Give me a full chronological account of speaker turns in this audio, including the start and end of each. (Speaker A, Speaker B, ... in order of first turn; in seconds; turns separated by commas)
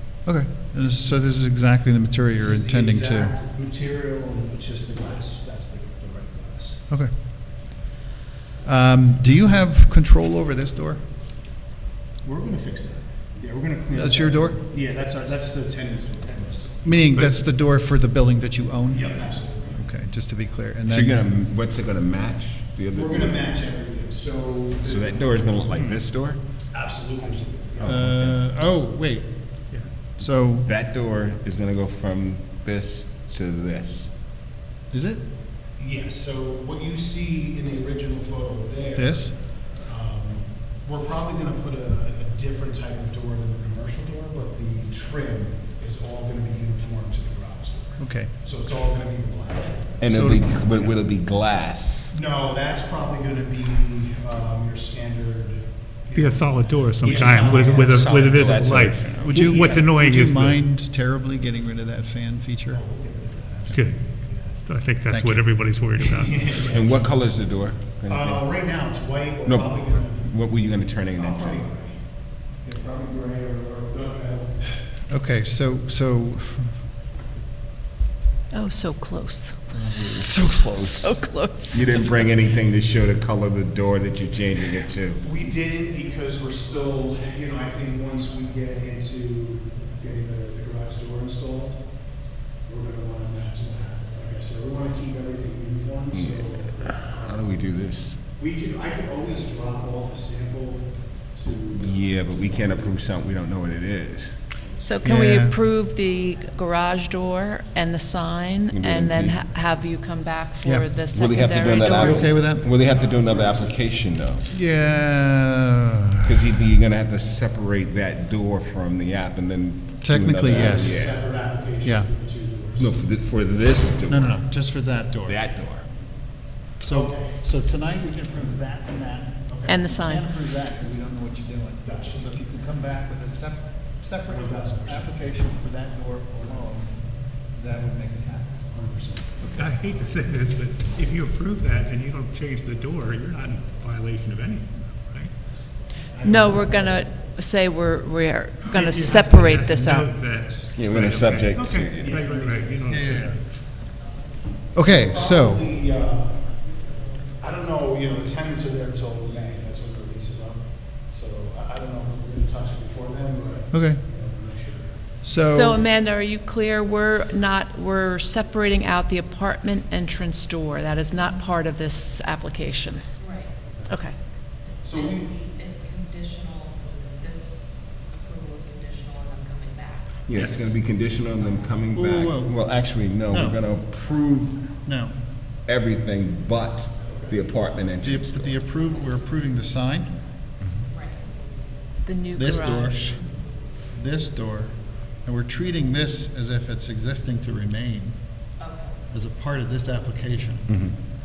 Speaker A: 0.2-3.4, Speaker B: 2.4-6.8, Speaker A: 6.9-7.1, Speaker A: 8.6-11.0, Speaker B: 12.2-16.9, Speaker A: 13.9-14.6, Speaker A: 16.8-21.2, Speaker B: 18.8-19.8, Speaker C: 20.9-23.6, Speaker B: 22.9-25.9, Speaker C: 24.8-26.6, Speaker D: 25.8-26.0, Speaker B: 26.6-28.2, Speaker C: 27.8-28.4, Speaker A: 27.8-30.7, Speaker C: 30.5-34.1, Speaker A: 34.9-35.2, Speaker B: 35.8-50.0, Speaker A: 39.0-39.4, Speaker A: 48.0-48.3, Speaker C: 50.0-52.2, Speaker A: 50.0-50.6, Speaker B: 52.1-58.2, Speaker D: 56.1-60.6, Speaker C: 57.6-59.4, Speaker B: 59.2-59.8, Speaker A: 59.3-62.8, Speaker B: 62.7-64.6, Speaker D: 63.7-64.0, Speaker D: 64.6-66.6, Speaker A: 65.1-66.0, Speaker B: 66.3-67.2, Speaker C: 66.6-68.6, Speaker B: 68.0-74.7, Speaker C: 69.4-71.7, Speaker A: 75.1-76.8, Speaker E: 78.5-82.2, Speaker A: 79.8-81.2, Speaker C: 80.2-85.2, Speaker B: 85.2-97.6, Speaker C: 96.1-98.3, Speaker B: 98.3-103.0, Speaker C: 101.7-104.5, Speaker E: 104.8-112.3, Speaker A: 105.0-105.6, Speaker C: 108.7-109.4, Speaker A: 110.6-111.0, Speaker C: 111.1-114.5, Speaker A: 111.7-112.7, Speaker B: 112.3-113.8, Speaker A: 114.5-116.5, Speaker C: 116.2-121.3, Speaker A: 120.0-121.1, Speaker B: 120.4-123.0, Speaker A: 121.8-122.1, Speaker C: 122.8-124.3, Speaker A: 124.1-125.4, Speaker C: 125.3-125.9, Speaker A: 126.8-138.7, Speaker B: 126.9-127.4, Speaker B: 129.5-129.8, Speaker E: 129.7-130.3, Speaker B: 131.8-132.2, Speaker B: 134.3-135.4, Speaker B: 138.7-139.7, Speaker D: 139.5-145.3, Speaker B: 146.2-146.7, Speaker E: 146.2-150.1, Speaker D: 148.7-153.4, Speaker C: 150.8-152.2, Speaker B: 151.9-152.8, Speaker A: 152.9-153.4, Speaker A: 154.7-155.7, Speaker B: 155.0-156.8, Speaker B: 157.4-165.1, Speaker A: 163.7-164.0, Speaker A: 165.2-165.8, Speaker E: 165.4-174.2, Speaker F: 173.2-173.5, Speaker B: 174.8-175.4, Speaker F: 175.0-180.4, Speaker C: 180.3-184.8, Speaker A: 181.9-182.6, Speaker A: 183.3-183.6, Speaker A: 184.8-185.3, Speaker C: 185.7-188.6, Speaker B: 187.0-187.4, Speaker A: 188.0-190.2, Speaker F: 190.9-191.2, Speaker E: 192.0-193.2, Speaker A: 192.3-193.4, Speaker A: 193.9-200.8, Speaker F: 198.6-198.9, Speaker C: 200.7-200.9